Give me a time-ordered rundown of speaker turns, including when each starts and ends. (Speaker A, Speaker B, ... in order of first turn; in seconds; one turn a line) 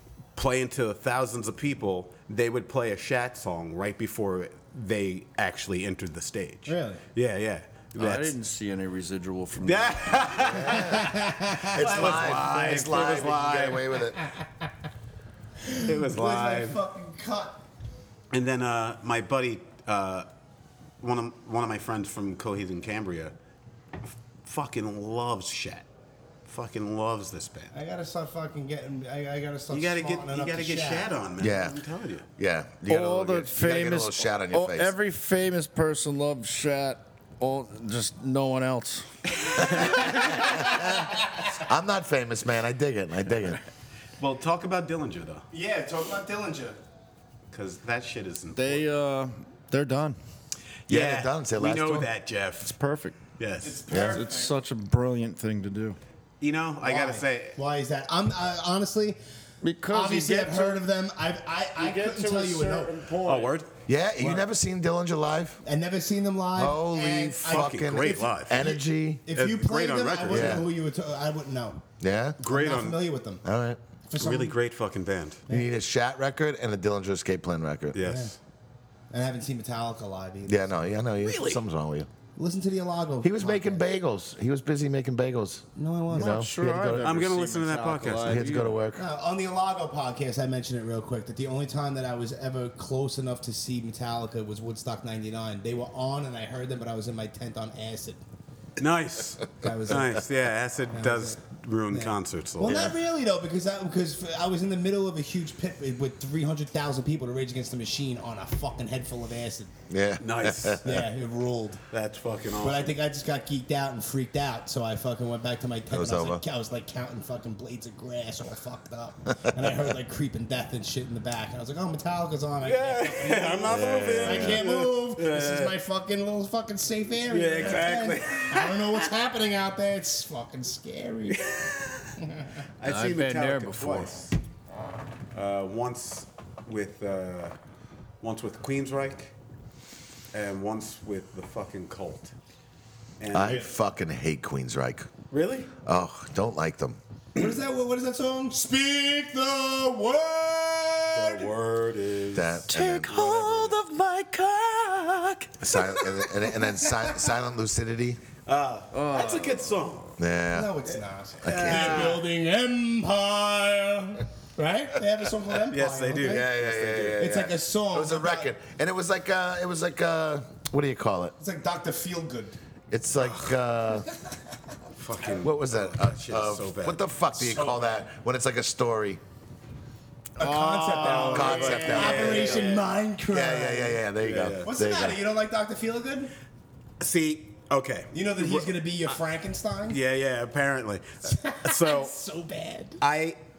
Speaker A: 0.4-8.3
Speaker B: 6.7-7.0
Speaker C: 8.0-10.5
Speaker A: 9.6-13.8
Speaker D: 10.5-11.1
Speaker B: 10.6-12.1
Speaker D: 11.7-14.2
Speaker C: 12.0-13.3
Speaker B: 15.7-17.6
Speaker A: 15.8-16.8
Speaker A: 18.3-20.3
Speaker A: 21.0-23.3
Speaker A: 24.4-25.9
Speaker A: 26.5-27.7
Speaker B: 27.7-31.1
Speaker A: 29.7-32.3
Speaker D: 31.4-31.8
Speaker D: 32.4-35.0
Speaker C: 32.9-40.8
Speaker B: 39.8-40.9
Speaker D: 39.9-43.6
Speaker A: 44.2-45.5
Speaker B: 45.5-46.8
Speaker A: 47.5-48.9
Speaker C: 48.5-50.2
Speaker A: 50.9-52.7
Speaker D: 50.9-52.1
Speaker C: 52.6-53.2
Speaker A: 53.4-53.8
Speaker B: 53.6-54.5
Speaker D: 53.9-54.2
Speaker C: 54.0-56.0
Speaker A: 56.4-57.6
Speaker B: 56.8-59.2
Speaker C: 59.6-60.9
Speaker B: 59.9-62.9
Speaker C: 61.8-63.6
Speaker A: 63.2-63.7
Speaker D: 63.9-65.6
Speaker B: 65.6-71.8
Speaker D: 66.6-69.2
Speaker A: 67.5-68.7
Speaker A: 69.3-70.6
Speaker D: 70.3-70.7
Speaker D: 72.0-72.4
Speaker A: 72.4-73.0
Speaker B: 72.4-73.4
Speaker D: 73.4-73.8
Speaker B: 74.1-74.5
Speaker A: 74.2-75.4
Speaker D: 75.5-78.0
Speaker A: 77.9-78.3
Speaker B: 78.0-78.3
Speaker B: 79.1-80.7
Speaker D: 80.5-82.1
Speaker A: 81.2-81.6
Speaker B: 82.4-83.8
Speaker D: 83.2-87.2
Speaker B: 85.8-86.5
Speaker C: 86.1-88.8
Speaker A: 87.0-88.5
Speaker D: 88.2-89.0
Speaker B: 89.0-98.2
Speaker A: 98.8-103.0
Speaker B: 99.6-100.2
Speaker B: 100.9-101.4
Speaker B: 101.9-109.7
Speaker D: 109.9-111.0
Speaker A: 110.2-110.9
Speaker B: 110.8-111.8
Speaker A: 111.9-113.0
Speaker B: 112.6-131.4
Speaker D: 115.9-116.4
Speaker A: 122.6-125.8
Speaker D: 123.7-124.6
Speaker A: 127.3-129.1
Speaker A: 131.4-132.1
Speaker B: 132.2-132.6
Speaker A: 132.8-134.3
Speaker C: 132.8-134.2
Speaker A: 135.3-137.6
Speaker A: 138.2-139.3
Speaker A: 140.3-142.3
Speaker A: 143.2-143.7
Speaker D: 143.3-145.1
Speaker A: 145.3-145.7
Speaker D: 145.8-147.0
Speaker B: 147.4-151.5
Speaker A: 151.1-152.7
Speaker D: 152.3-153.7
Speaker C: 152.7-156.4
Speaker D: 155.6-158.2
Speaker A: 158.5-160.1
Speaker C: 158.9-159.8
Speaker D: 160.2-160.8
Speaker B: 160.5-166.5
Speaker D: 161.4-162.2
Speaker A: 161.4-162.2
Speaker A: 165.7-167.3
Speaker D: 166.2-171.3
Speaker B: 167.2-168.5
Speaker B: 171.4-172.6
Speaker D: 172.9-174.1
Speaker A: 175.0-177.0
Speaker D: 175.4-179.2
Speaker B: 177.3-178.0
Speaker B: 180.4-184.0
Speaker C: 180.4-182.7
Speaker A: 181.0-182.9
Speaker D: 181.3-182.7
Speaker D: 183.3-185.2
Speaker A: 184.2-184.7
Speaker B: 184.6-186.3
Speaker A: 187.0-188.7
Speaker B: 188.1-190.0
Speaker A: 189.9-192.1
Speaker B: 191.2-193.0
Speaker A: 193.0-193.4